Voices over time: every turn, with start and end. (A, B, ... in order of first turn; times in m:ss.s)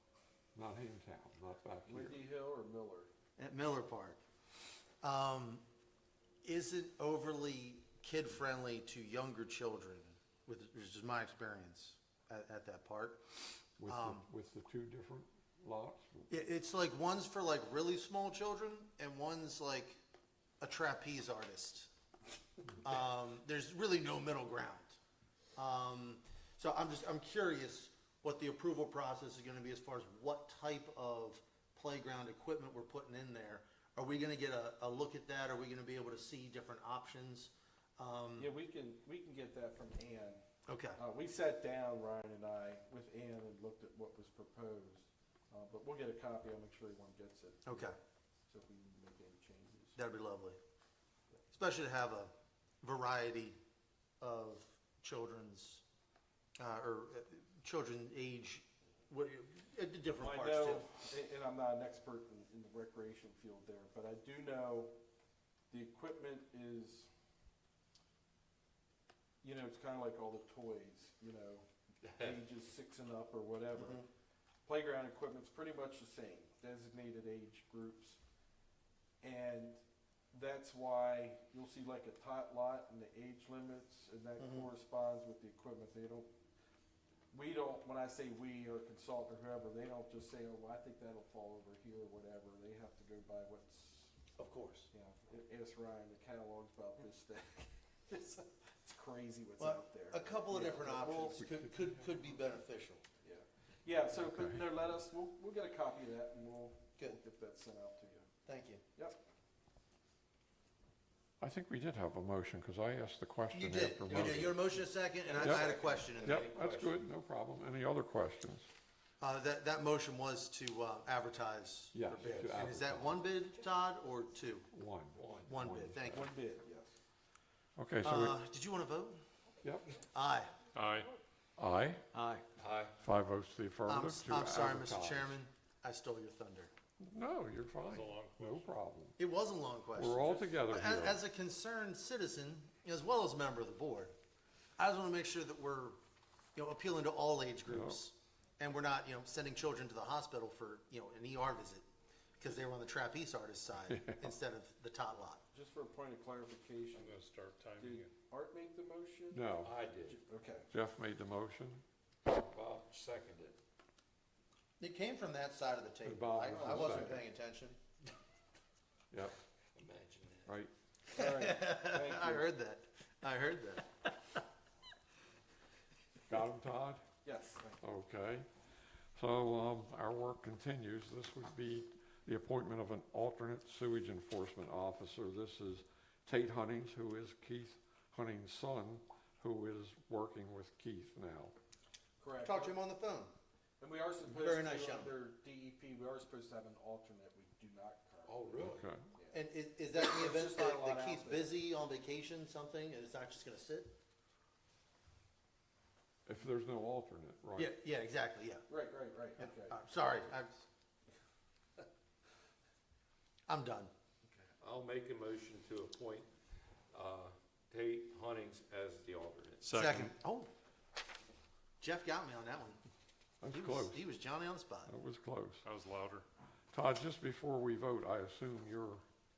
0:00.5-0:02.2 A
0:01.9-0:03.1 B
0:03.4-0:04.2 C
0:05.0-0:05.6 C
0:06.4-0:13.2 C
0:13.8-0:16.3 A
0:13.8-0:14.2 C
0:16.3-0:20.0 C
0:20.6-0:21.9 C
0:22.8-0:25.0 C
0:25.6-0:38.5 C
0:38.4-0:40.4 B
0:40.7-0:41.0 C
0:41.0-0:47.9 B
0:47.6-0:48.0 C
0:48.5-0:50.0 B
0:50.0-0:50.6 C
0:51.5-0:53.6 C
0:54.2-0:55.8 C
0:56.6-1:00.9 C
1:00.2-1:04.9 B
1:05.7-1:07.1 B
1:09.4-1:11.6 B
1:12.0-1:12.4 D
1:12.2-1:14.0 B
1:13.8-1:14.0 C
1:14.6-1:18.2 B
1:19.2-1:19.8 B
1:20.3-1:26.3 B
1:24.4-1:24.7 C
1:27.3-1:34.1 B
1:34.4-1:34.9 C
1:34.9-1:41.4 B
1:39.6-1:43.0 C
1:41.2-1:41.9 A
1:43.2-1:48.3 B
1:44.1-1:44.6 A
1:48.4-1:48.8 C
1:51.4-1:54.6 A
1:53.5-1:56.5 C
1:54.1-1:54.4 D
1:55.3-1:57.1 D
1:55.3-1:58.7 A
1:59.2-2:04.7 C
2:01.9-2:03.2 A
2:04.7-2:06.2 A
2:05.2-2:05.6 D
2:05.5-2:06.3 C
2:06.1-2:06.9 B
2:07.8-2:08.4 A
2:08.0-2:09.2 C
2:09.6-2:09.9 A
2:10.1-2:10.5 C
2:10.7-2:11.1 E
2:11.6-2:12.0 A
2:12.1-2:12.4 C
2:12.6-2:13.0 D
2:13.0-2:15.3 A
2:13.9-2:16.7 C
2:17.0-2:19.2 A
2:17.9-2:18.5 E
2:18.0-2:18.6 D
2:19.2-2:24.1 C
2:19.9-2:21.2 A
2:24.8-2:26.0 C
2:26.6-2:31.8 C
2:27.7-2:28.0 A
2:32.4-2:35.4 C
2:33.9-2:34.2 A
2:35.5-2:37.2 B
2:36.9-2:38.1 D
2:37.8-2:39.4 B
2:39.3-2:39.7 A
2:39.6-2:40.2 D
2:40.0-2:40.7 B
2:40.7-2:41.8 A
2:42.2-2:43.6 D
2:44.8-2:47.8 C
2:46.0-2:47.2 A
2:46.5-2:47.2 B
2:49.1-2:49.4 A
2:49.7-2:50.5 D
2:50.4-2:50.7 A
2:51.1-2:54.1 C
2:51.1-2:52.5 B
2:56.3-2:57.0 A
2:57.2-2:57.8 B
2:57.8-2:58.5 A
2:59.2-3:11.5 A
3:12.2-3:12.8 B
3:12.4-3:13.3 C
3:13.8-3:19.4 B
3:14.2-3:15.2 C
3:18.2-3:18.8 D
3:18.6-3:19.0 A
3:19.3-3:23.9 C
3:19.9-3:21.6 B
3:26.2-3:27.7 A
3:27.6-3:28.6 C
3:28.7-3:29.8 B
3:29.4-3:30.6 C
3:33.5-3:33.9 C
3:34.6-3:36.3 D
3:36.9-3:39.7 D
3:39.6-3:40.1 E
3:39.7-3:40.5 C
3:41.8-3:42.8 C
3:43.4-3:44.0 A
3:43.5-3:44.9 C
3:44.9-3:45.6 A
3:45.6-3:46.2 E
3:46.7-3:49.0 A